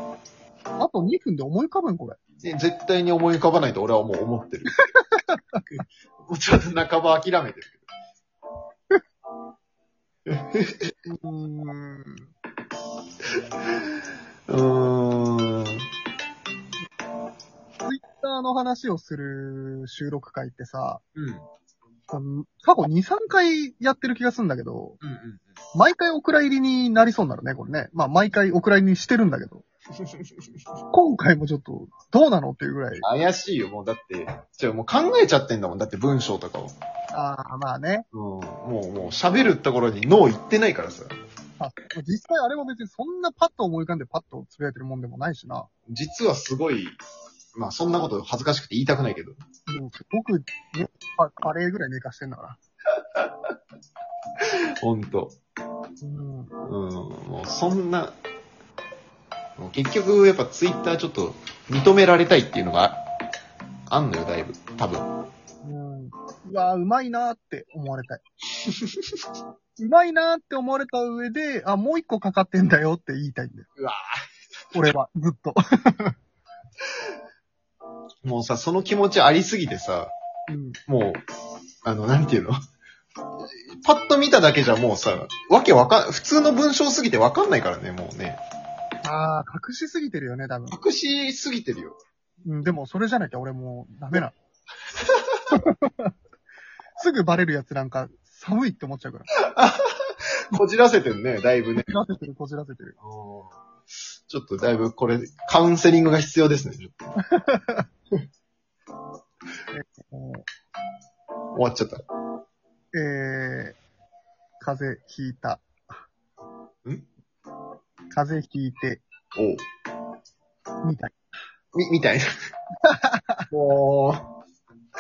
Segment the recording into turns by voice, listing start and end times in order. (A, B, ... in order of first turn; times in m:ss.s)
0:00.8-0:02.2 A
0:02.4-0:04.7 B
0:05.0-0:05.6 A
0:05.7-0:07.8 B
0:10.3-0:10.9 B
0:11.1-0:12.3 A
0:14.5-0:15.9 B
0:17.8-0:21.0 A
0:21.2-0:21.5 B
0:22.1-0:25.0 A
0:25.0-0:25.5 B
0:25.8-0:29.6 A
0:30.0-0:30.3 B
0:30.9-0:33.1 A
0:33.0-0:36.8 B
0:37.1-0:38.1 A
0:38.1-0:41.2 B
0:41.6-0:45.7 A
0:45.9-0:47.0 B
0:47.6-0:49.4 B
0:49.7-0:52.6 A
0:54.8-0:55.4 B
0:56.0-0:56.5 A
0:56.6-0:58.2 B
0:59.6-1:03.0 B
1:03.9-1:05.1 B
1:05.6-1:08.2 A
1:09.8-1:13.7 A
1:13.8-1:14.0 B
1:14.7-1:16.2 A
1:18.2-1:20.1 B
1:20.5-1:20.8 A
1:20.9-1:21.2 B
1:21.8-1:22.6 B
1:23.8-1:28.4 B
1:29.0-1:30.8 A
1:30.7-1:32.0 B
1:32.4-1:34.4 A
1:35.5-1:36.1 A
1:37.0-1:39.3 A
1:39.5-1:39.8 B
1:40.5-1:41.9 B
1:41.8-1:43.0 A
1:43.0-1:43.6 B
1:44.3-1:47.0 B
1:47.2-1:47.9 A
1:49.7-1:50.5 A
1:51.5-1:52.0 B
1:52.9-1:53.8 A
1:54.6-1:55.6 A
1:58.1-1:59.0 A
1:59.4-1:59.6 B
2:00.8-2:01.1 A
2:01.7-2:02.3 B
2:02.8-2:03.5 A
2:03.5-2:04.2 B